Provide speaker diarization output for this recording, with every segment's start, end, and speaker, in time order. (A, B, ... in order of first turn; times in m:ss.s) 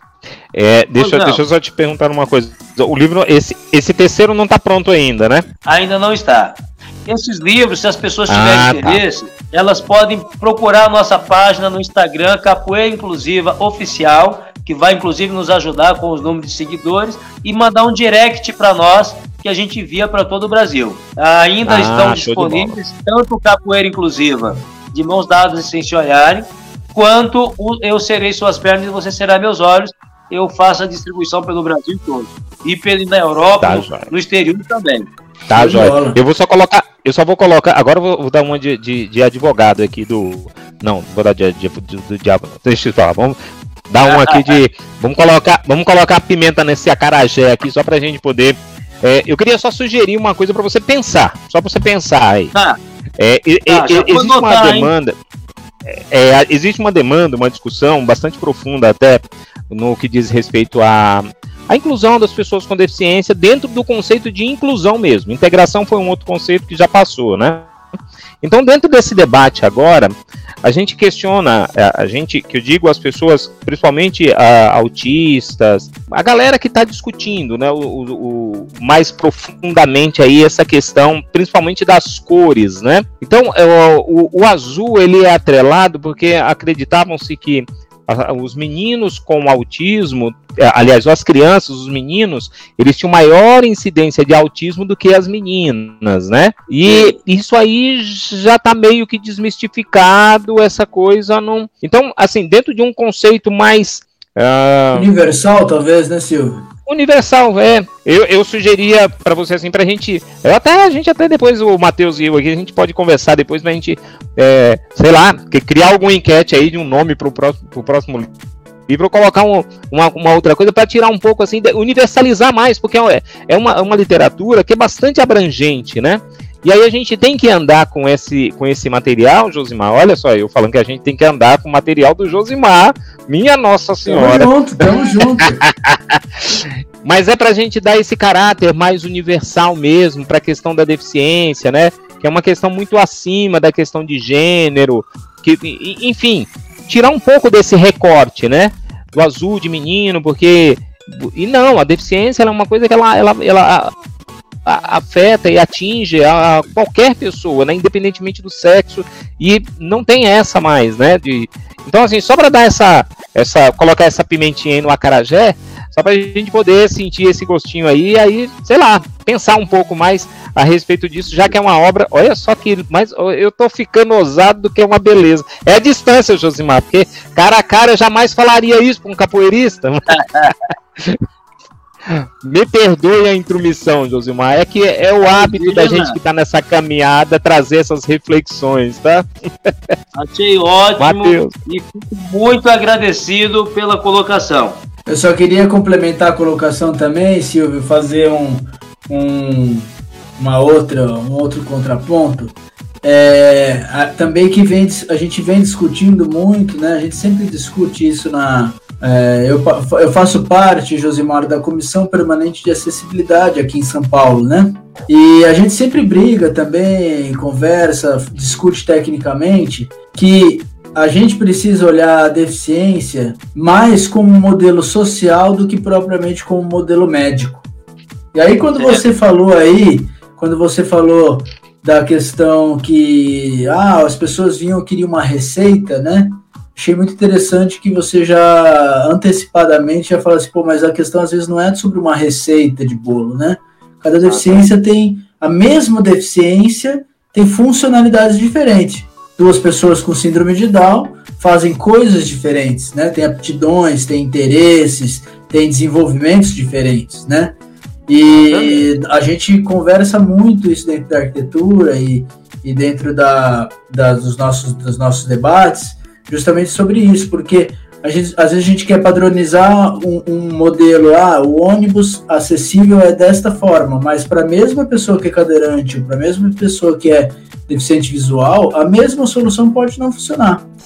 0:00.5-0:05.4 A
0:01.0-0:01.4 B
0:05.6-0:35.1 B
0:08.3-0:09.0 A
0:21.6-0:22.8 A
0:33.6-0:34.1 A
0:35.5-0:36.2 C
0:35.5-0:43.4 A
0:43.9-0:52.5 A
0:44.0-0:44.6 B
0:53.2-0:55.1 A
0:53.7-0:54.9 B
0:55.8-1:07.7 A
1:08.4-1:45.1 A
1:36.7-1:37.2 B
1:44.9-1:46.7 C
1:46.9-1:58.3 A
1:58.9-2:14.6 A
2:14.0-2:15.6 C
2:15.6-2:33.9 A
2:34.6-3:01.2 A
3:00.1-3:00.5 B
3:02.1-3:09.9 A
3:05.2-3:06.2 B
3:10.1-3:14.8 B
3:11.0-3:11.5 A
3:15.0-3:47.6 C
3:48.3-4:17.6 C
3:48.8-3:49.0 B
4:04.2-4:04.7 B
4:18.1-4:40.6 C
4:18.3-4:18.9 B